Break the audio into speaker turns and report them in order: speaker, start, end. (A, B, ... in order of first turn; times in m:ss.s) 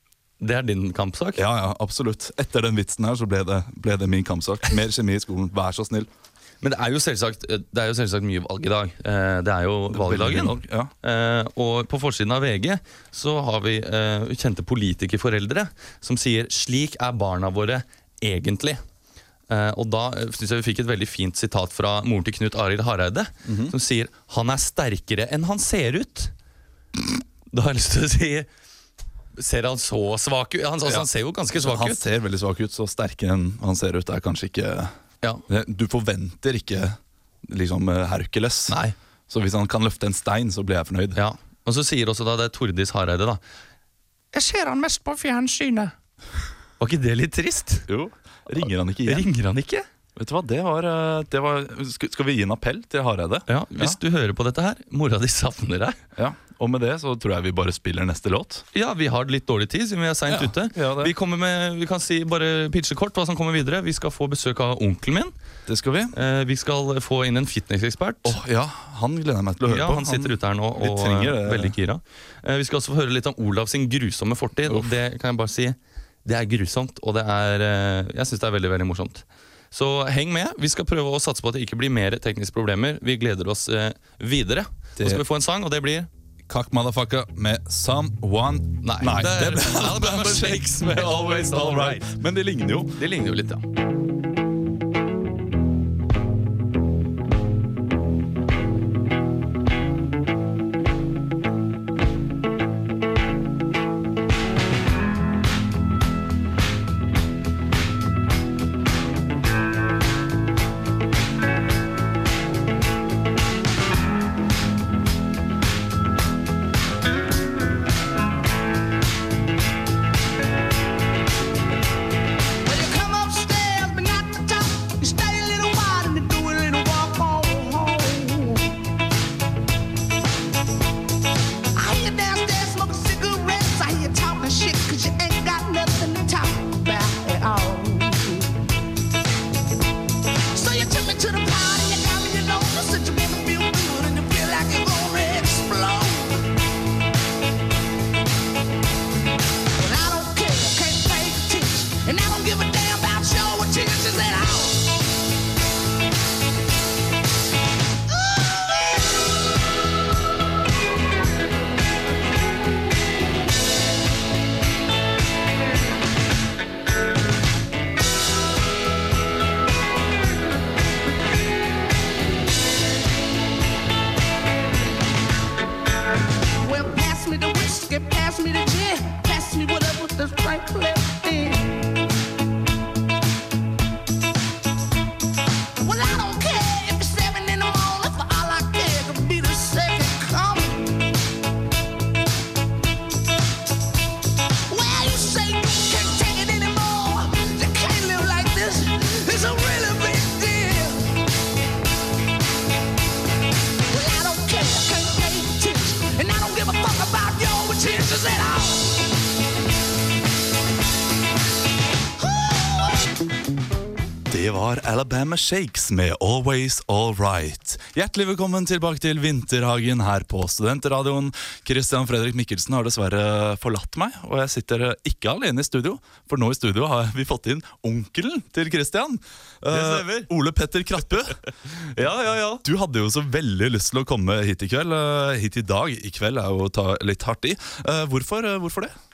0:00.4-0:01.4 A
0:01.4-0:06.1 B
0:06.6-0:18.8 A
0:09.9-0:10.9 B
0:19.5-0:26.3 A
0:23.4-0:23.7 B
0:27.5-0:28.5 A
0:29.4-0:32.0 A
0:30.9-0:34.9 B
0:35.5-0:38.8 B
0:38.7-0:39.0 A
0:39.3-0:41.2 B
0:41.2-0:43.4 A
0:44.3-0:45.9 A
0:46.8-0:47.9 A
0:47.9-0:49.3 B
0:48.6-0:49.9 A
0:50.2-0:54.0 B
0:53.5-0:56.0 A
0:56.2-0:58.6 B
0:58.7-1:05.3 A
1:00.3-1:01.1 B
1:05.7-1:06.1 B
1:06.1-1:08.4 A
1:08.2-1:11.8 B
1:09.7-1:26.1 A
1:14.7-1:14.9 B
1:25.0-1:25.2 B
1:26.5-1:33.0 B
1:28.8-1:32.1 A
1:33.0-1:33.6 A
2:02.6-2:08.7 C
2:11.8-2:18.6 C
2:20.5-2:26.5 C
2:29.8-2:35.0 C
2:38.1-2:38.9 C
2:56.6-3:01.8 C
3:05.8-3:10.9 C
3:14.7-3:21.1 C
3:23.9-3:29.1 C
3:32.2-3:33.1 C
3:34.3-3:51.4 B
3:49.7-3:50.3 A
3:51.7-3:52.6 A
3:52.6-3:58.9 B